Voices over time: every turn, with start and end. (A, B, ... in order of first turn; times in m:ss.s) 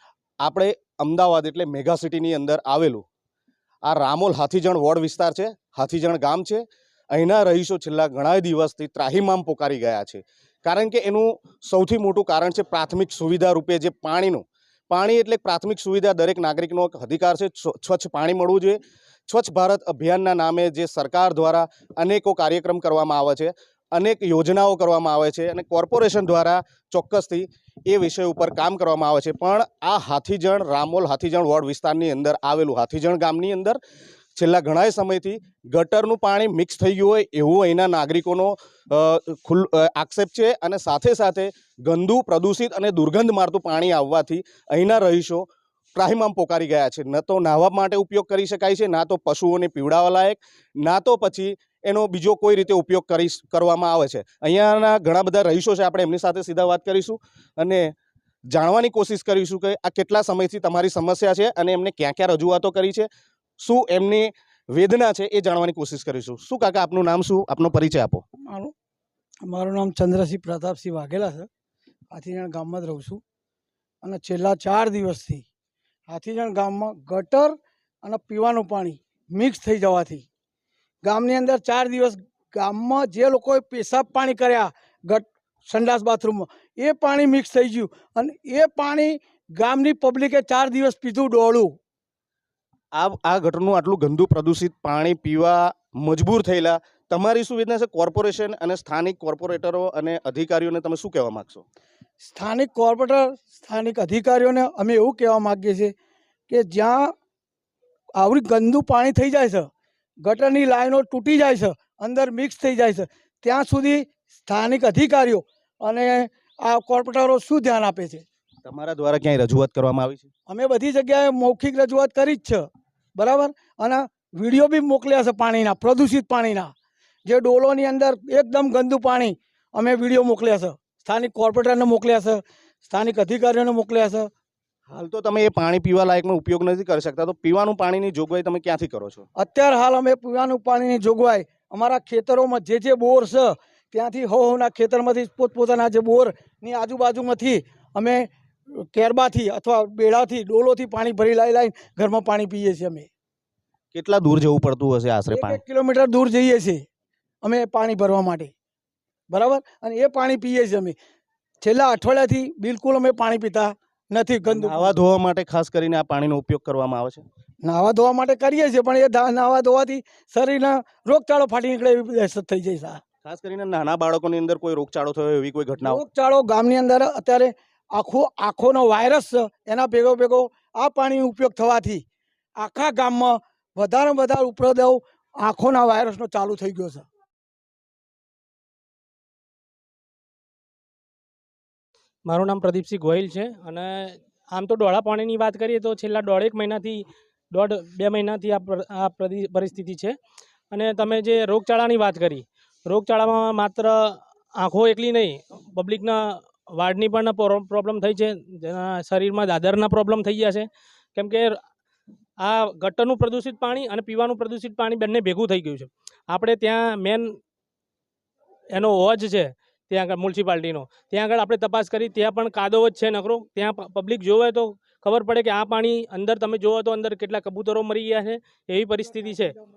0:00.4-0:03.0 A
0:03.9-0:33.8 A
0:34.4-0:57.9 A
0:58.5-1:03.1 A
1:03.6-1:08.2 A
1:09.5-1:11.5 B
1:12.1-1:13.2 B
1:14.0-1:15.4 B
1:16.1-1:20.2 B
1:21.0-1:31.7 B
1:33.0-1:41.6 A
1:42.2-1:45.9 B
1:46.5-1:47.1 B
1:48.2-1:49.7 B
1:50.2-1:58.2 B
1:58.7-2:00.3 A
2:00.5-2:02.6 B
2:03.2-2:06.7 B
2:07.3-2:14.3 B
2:14.9-2:19.2 A
2:19.4-2:28.3 B
2:28.9-2:33.1 B
2:33.9-2:35.6 A
2:35.3-2:36.8 B
2:37.4-2:38.5 B
2:39.3-2:41.0 B
2:41.6-2:44.9 B
2:44.5-2:47.2 A
2:47.6-2:53.0 B
2:53.2-2:56.0 A
2:55.8-3:02.0 B
3:02.6-3:07.0 B
3:12.2-3:20.2 C
3:20.7-3:31.6 C
3:32.4-3:37.4 C
3:38.7-3:49.6 C